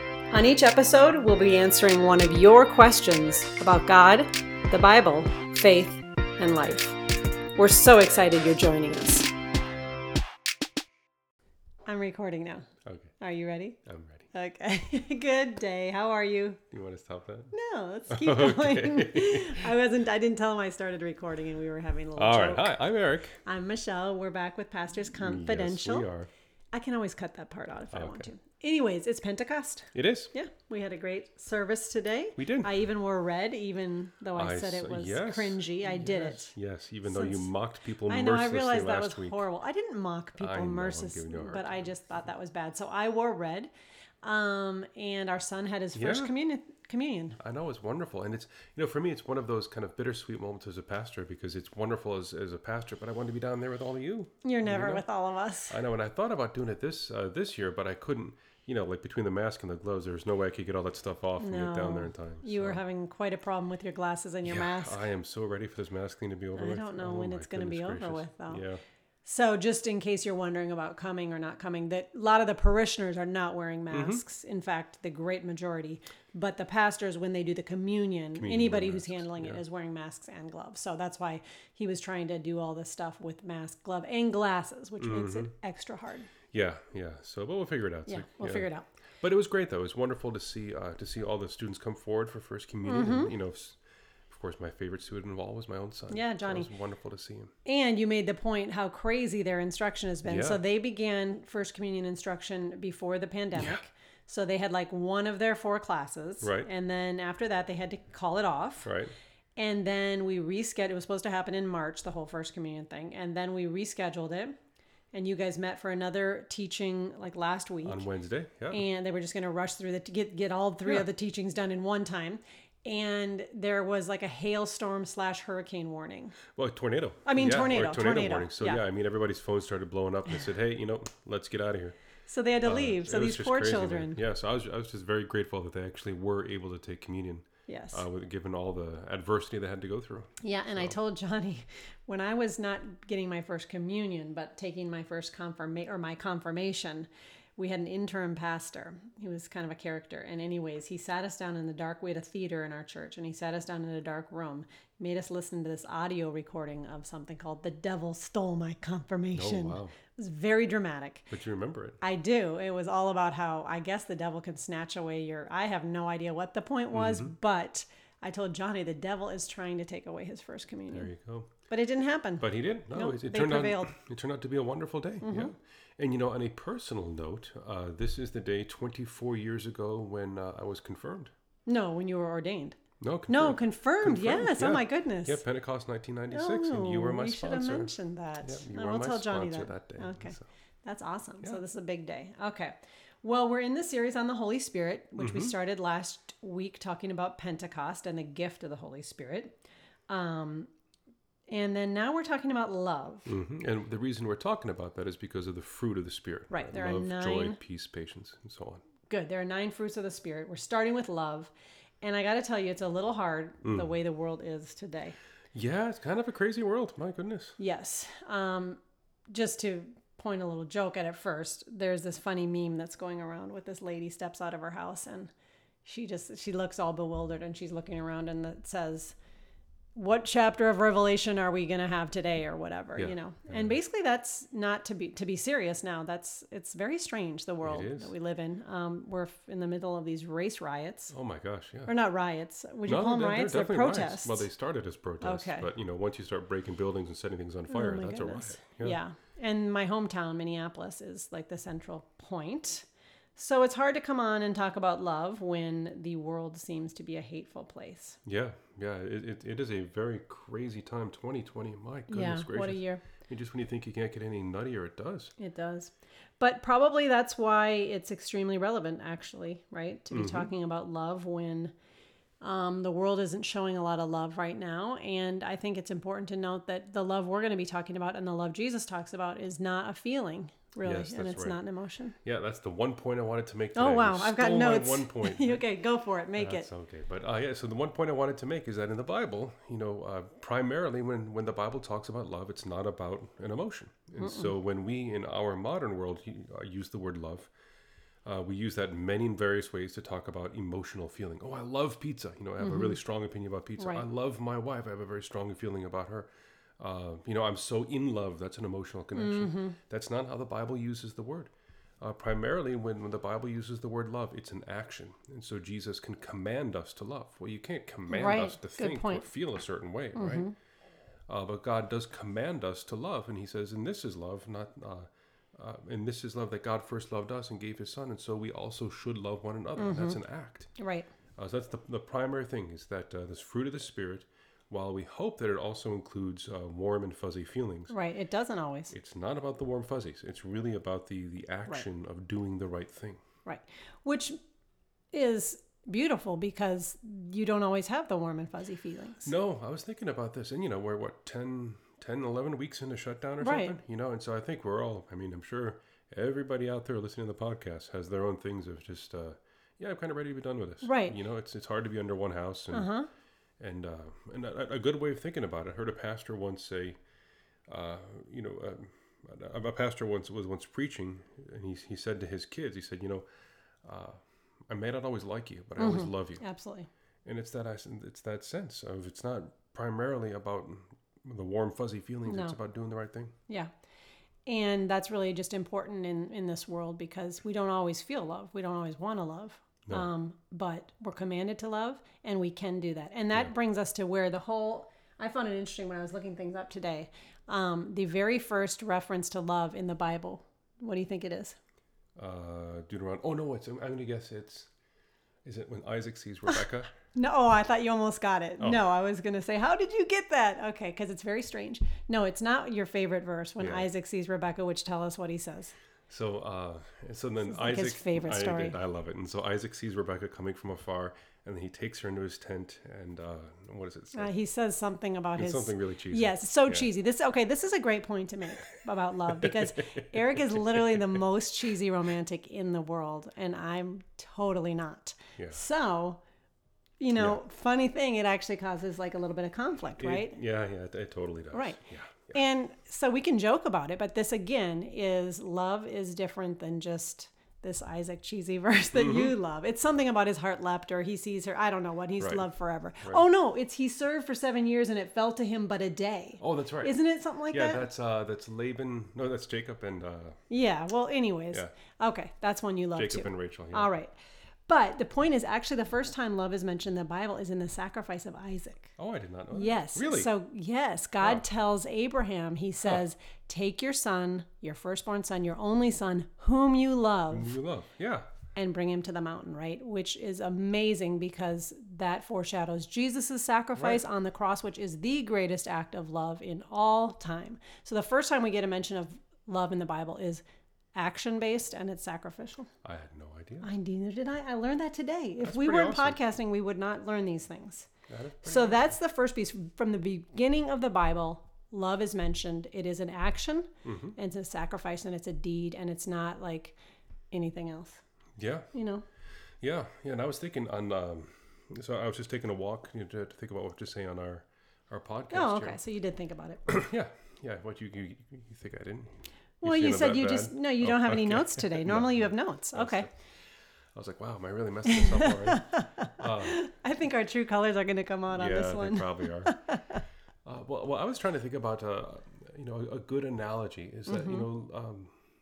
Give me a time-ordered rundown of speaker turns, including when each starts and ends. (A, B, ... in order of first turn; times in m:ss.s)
0:00.3-0:07.0 A
0:07.6-0:09.3 A
0:11.9-0:12.7 A
0:12.8-0:13.1 B
0:13.2-0:13.8 A
0:13.8-0:14.3 B
0:14.3-0:16.6 A
0:16.7-0:17.5 B
0:17.5-0:22.8 A
0:18.1-0:19.7 B
0:22.2-0:23.4 B
0:23.4-0:26.1 A
0:25.1-0:26.3 B
0:26.7-0:37.5 A
0:27.9-0:28.3 B
0:29.9-0:30.3 B
0:32.4-0:32.8 B
0:34.4-0:39.4 B
0:38.1-0:43.7 A
0:40.4-0:42.2 B
0:44.2-0:47.4 A
0:46.0-0:46.3 B
0:47.4-0:55.0 B
0:54.4-0:55.8 A
0:55.7-1:02.8 B
1:01.4-1:05.0 A
1:04.4-1:08.8 B
1:06.6-1:08.6 A
1:09.2-1:26.3 A
1:13.9-1:14.2 B
1:18.4-1:19.6 B
1:25.0-1:25.5 B
1:26.5-1:28.7 B
1:28.1-1:28.9 A
1:29.2-1:37.5 B
1:32.8-1:33.3 A
1:36.1-1:36.7 A
1:37.6-1:48.9 A
1:40.3-1:40.6 B
1:43.6-1:43.8 B
1:46.4-1:46.7 B
1:48.8-1:49.1 B
1:49.6-1:54.6 A
1:55.1-1:58.1 A
1:57.8-1:58.8 B
1:58.7-2:06.4 A
2:06.5-2:12.0 B
2:07.3-2:08.8 A
2:12.3-2:14.2 A
2:12.6-2:21.0 B
2:17.7-2:18.0 A
2:20.4-2:41.3 A
2:39.4-2:40.0 B
2:41.3-2:42.0 B
2:42.0-2:51.1 A
2:46.9-2:47.3 B
2:50.9-2:51.6 B
2:51.7-2:53.9 A
2:52.4-3:01.3 B
2:55.2-2:55.5 A
3:01.7-3:05.4 A
3:03.0-3:10.5 B
3:06.3-3:19.6 A
3:15.2-3:15.6 B
3:20.1-3:20.7 A
3:21.5-3:23.4 A
3:23.3-3:28.8 B
3:26.5-3:27.6 A
3:29.1-3:35.2 A
3:33.6-3:33.9 B
3:35.5-3:37.6 B
3:37.6-3:45.3 A
3:45.8-3:49.2 A
3:50.0-4:01.1 A
3:53.0-3:53.8 B
3:57.6-3:58.1 B
4:01.1-4:01.9 B
4:01.9-4:04.5 A
4:02.9-4:09.0 B
4:05.2-4:05.7 A
4:07.7-4:18.2 A
4:18.2-4:25.3 B
4:22.1-4:23.0 A
4:25.4-4:31.7 A
4:30.1-4:30.5 B
4:32.4-4:42.2 A
4:40.8-4:41.6 B
4:42.2-4:45.6 B
4:43.8-4:46.7 A
4:46.4-4:57.5 B
4:54.2-4:54.5 A
4:58.2-5:20.5 B
5:02.6-5:03.0 A
5:03.8-5:04.0 A
5:09.2-5:09.8 A
5:18.1-5:19.3 A
5:20.2-5:20.5 A
5:21.3-5:30.7 B
5:29.8-5:30.2 A
5:30.8-5:31.1 A
5:31.4-5:37.9 B
5:37.9-5:38.9 A
5:38.9-5:43.2 B
5:43.4-5:44.4 A
5:45.1-5:49.3 A
5:49.2-6:02.9 B
5:53.4-5:53.8 A
6:00.8-6:01.2 A
6:02.7-6:03.1 A
6:03.6-6:07.0 B
6:07.7-6:13.2 B
6:13.8-6:16.4 B
6:15.8-6:16.9 A
6:17.2-6:23.3 B
6:22.3-6:22.6 A
6:24.5-6:41.6 A
6:42.2-6:44.7 B
6:45.4-6:46.9 B
6:47.1-6:55.8 A
6:53.6-6:53.9 B
6:56.1-7:04.3 B
6:57.4-6:58.8 A
7:04.1-7:16.2 A
7:05.4-7:06.9 B
7:09.3-7:11.2 B
7:17.0-7:20.4 A
7:20.0-7:22.4 B
7:21.5-7:21.8 A
7:22.3-7:37.9 A
7:28.9-7:29.4 B
7:32.2-7:32.4 B
7:36.4-7:37.0 B
7:37.5-7:40.4 B
7:40.5-7:44.1 A
7:43.0-7:43.9 B
7:44.7-7:49.0 A
7:49.0-7:50.3 B
7:49.5-7:57.6 A
7:57.3-7:58.3 B
7:58.6-8:10.4 A
8:03.8-8:04.0 B
8:11.0-8:12.7 A
8:12.8-8:13.7 B
8:13.6-8:17.9 A
8:15.4-8:16.2 B
8:18.1-8:18.9 B
8:18.4-8:26.8 A
8:23.8-8:24.2 B
8:27.3-8:28.0 A
8:28.4-8:28.7 B
8:28.7-8:29.0 A
8:29.6-8:35.8 B
8:35.3-8:36.8 A
8:36.7-8:43.2 B
8:39.6-8:43.1 A
8:43.9-8:46.6 B
8:44.9-8:50.0 A
8:48.3-8:49.6 B
8:50.4-8:55.2 B
8:54.1-8:54.5 A